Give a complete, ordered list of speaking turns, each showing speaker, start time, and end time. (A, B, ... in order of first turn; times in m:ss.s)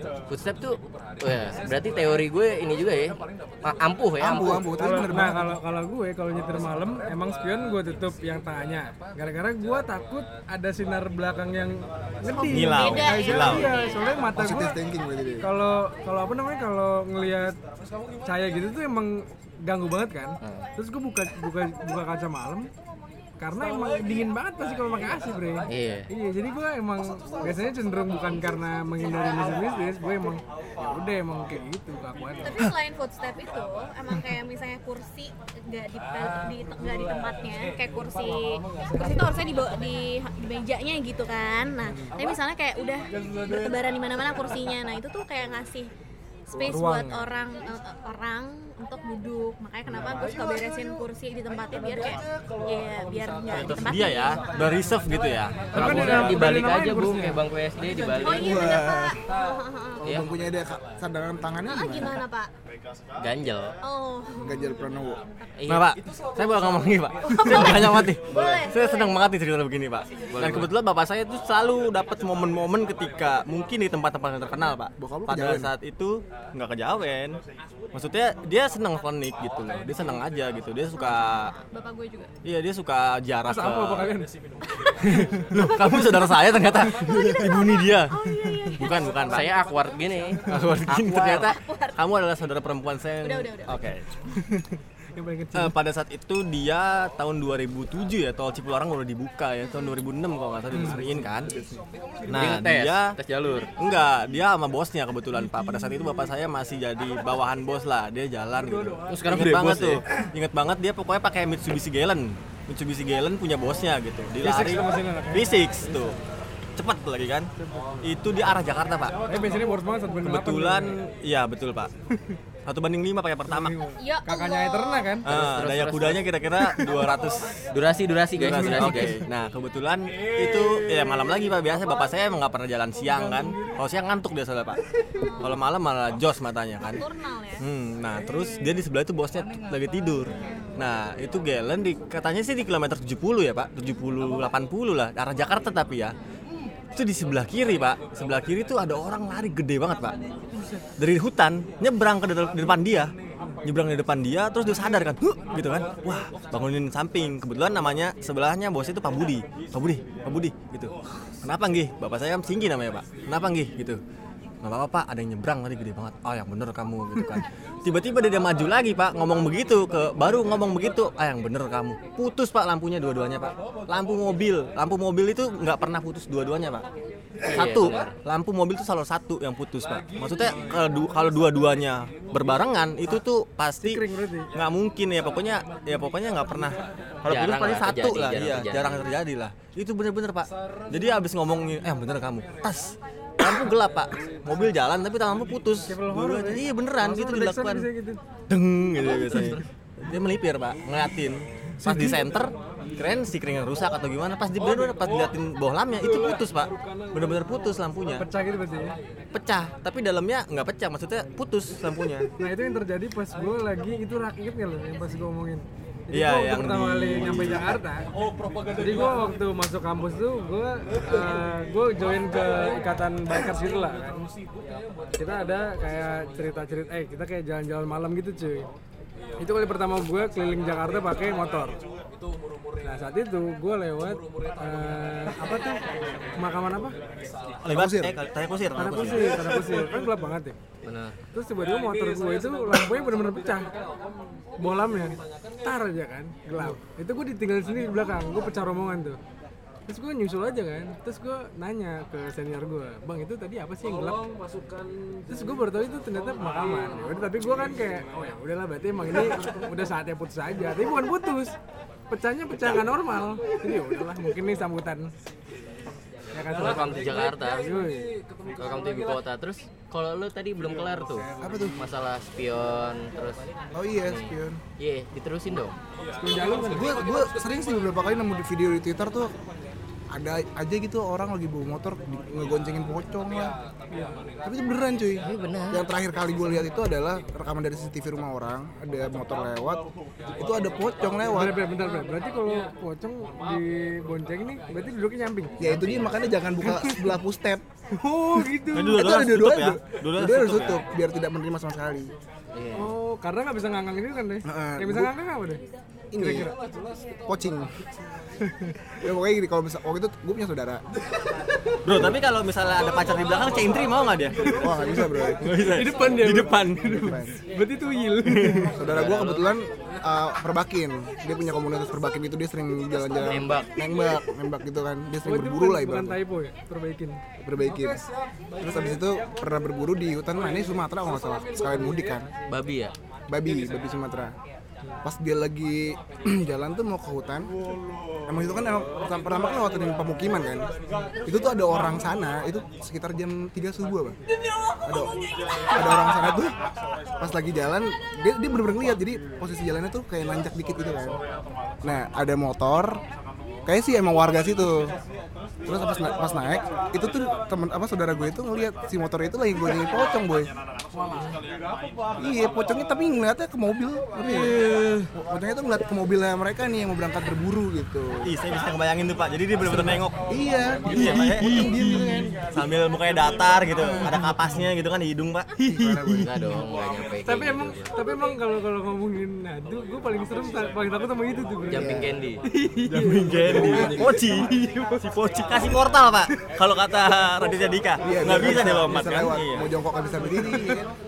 0:00.3-0:04.6 A
0:04.2-0:05.6 B
0:04.8-0:14.7 C
0:12.5-0:13.7 D
0:12.7-0:14.1 E
0:14.3-0:15.5 B
0:15.4-0:17.6 C
0:18.2-0:22.7 C
0:20.4-0:20.7 A
0:23.4-0:32.7 C
0:25.7-0:26.1 A
0:32.4-0:45.9 E
0:41.8-0:42.1 C
0:46.5-0:54.8 E
0:46.5-0:47.2 C
0:53.5-0:56.3 D
0:55.7-0:57.4 C
0:55.7-0:58.7 A
0:58.1-1:00.0 E
0:58.2-0:59.2 B
1:00.0-1:02.2 B
1:01.7-1:02.5 E
1:03.2-1:03.7 A
1:03.8-1:05.0 E
1:04.3-1:05.2 B
1:05.6-1:05.8 A
1:05.7-1:17.4 D
1:07.4-1:07.7 E
1:07.5-1:08.7 A
1:08.3-1:09.2 E
1:10.3-1:10.7 A
1:15.0-1:15.7 B
1:17.9-1:21.5 D
1:21.0-1:22.3 E
1:22.4-1:24.1 D
1:23.4-1:24.3 C
1:24.7-1:25.9 E
1:25.0-1:28.2 D
1:27.0-1:29.5 E
1:28.7-1:29.5 D
1:29.2-1:31.5 A
1:30.5-1:34.0 D
1:31.1-1:32.0 E
1:33.2-1:33.8 E
1:35.1-1:35.7 C
1:35.5-1:41.5 D
1:40.7-1:41.0 C
1:40.7-1:41.8 B
1:42.3-1:43.2 D
1:42.3-1:43.7 A
1:43.8-1:56.2 D
1:49.1-1:50.0 A
1:54.4-1:55.9 C
1:56.8-1:57.5 D
1:57.6-1:58.0 C
1:58.0-1:59.1 D
1:59.3-2:01.0 C
2:00.2-2:01.9 D
2:02.6-2:03.8 D
2:03.5-2:05.3 C
2:04.0-2:05.2 E
2:05.2-2:07.6 D
2:05.2-2:06.3 A
2:07.7-2:09.2 A
2:08.4-2:14.8 D
2:15.2-2:15.6 E
2:15.4-2:17.0 D
2:16.8-2:17.6 E
2:17.6-2:26.2 D
2:20.4-2:20.9 E
2:26.9-2:30.1 D
2:31.0-2:33.1 D
2:33.6-2:44.0 D
2:44.6-2:56.8 D
2:57.4-2:58.1 A
2:57.5-3:17.9 D
3:03.8-3:04.5 C
3:07.3-3:09.2 A
3:15.9-3:18.2 C
3:18.5-3:28.2 D
3:19.1-3:19.6 A
3:21.8-3:22.2 C
3:28.1-3:28.9 C
3:29.3-3:32.3 D
3:32.4-3:38.0 C
3:36.1-3:37.8 D
3:38.7-3:44.2 C
3:45.2-3:48.7 C
3:49.4-3:51.8 C
3:52.8-3:55.7 C
3:56.4-3:57.0 C
3:57.6-3:58.1 B
3:57.6-3:59.6 D
3:58.8-4:00.6 C
4:00.8-4:01.2 A
4:01.3-4:03.7 C
4:04.6-4:09.2 C
4:09.9-4:14.2 C
4:15.3-4:21.5 C
4:22.1-4:25.1 C
4:26.3-4:28.0 C
4:26.5-4:27.7 A
4:28.6-4:33.4 A
4:31.4-4:31.8 B
4:33.7-4:34.6 B
4:34.0-4:35.8 A
4:36.2-4:37.0 C
4:36.6-4:39.3 B
4:40.1-4:43.6 B
4:44.4-4:49.8 B
4:45.2-4:45.8 A
4:50.4-4:51.5 B
4:51.3-4:55.7 C
4:55.6-4:56.3 A
4:55.6-4:57.6 B
4:56.7-4:57.1 C
4:57.9-4:59.0 C
4:58.7-5:00.8 D
4:58.8-5:02.1 B
5:02.5-5:02.9 A
5:02.7-5:05.6 C
5:04.4-5:05.1 B
5:06.1-5:06.5 B
5:06.2-5:06.5 C
5:07.2-5:07.7 B
5:08.4-5:08.7 C
5:09.0-5:10.8 B
5:11.8-5:14.4 D
5:14.6-5:15.7 B
5:15.4-5:17.0 D
5:15.6-5:18.7 C
5:16.9-5:17.3 B
5:18.3-5:18.7 D
5:18.7-5:26.2 B
5:18.8-5:19.5 A
5:23.1-5:23.7 A
5:25.2-5:27.2 C
5:27.4-5:28.0 B
5:28.6-5:32.3 B
5:32.5-5:32.9 A
5:33.3-5:34.4 B
5:35.0-5:37.5 B
5:38.3-5:40.7 B
5:41.2-5:44.2 B
5:44.8-5:45.1 B
5:45.7-5:46.5 B
5:47.2-5:51.2 B
5:51.8-5:53.0 B
5:53.6-5:54.9 B
5:55.7-6:00.5 B
6:02.2-6:04.6 B
6:04.6-6:05.1 C
6:05.1-6:08.3 B
6:08.2-6:10.2 D
6:10.3-6:12.4 B
6:10.9-6:16.3 D
6:15.6-6:16.6 B
6:16.0-6:17.9 A
6:17.2-6:24.1 C
6:21.7-6:22.4 A
6:22.9-6:29.7 D
6:23.4-6:24.4 B
6:28.0-6:30.9 B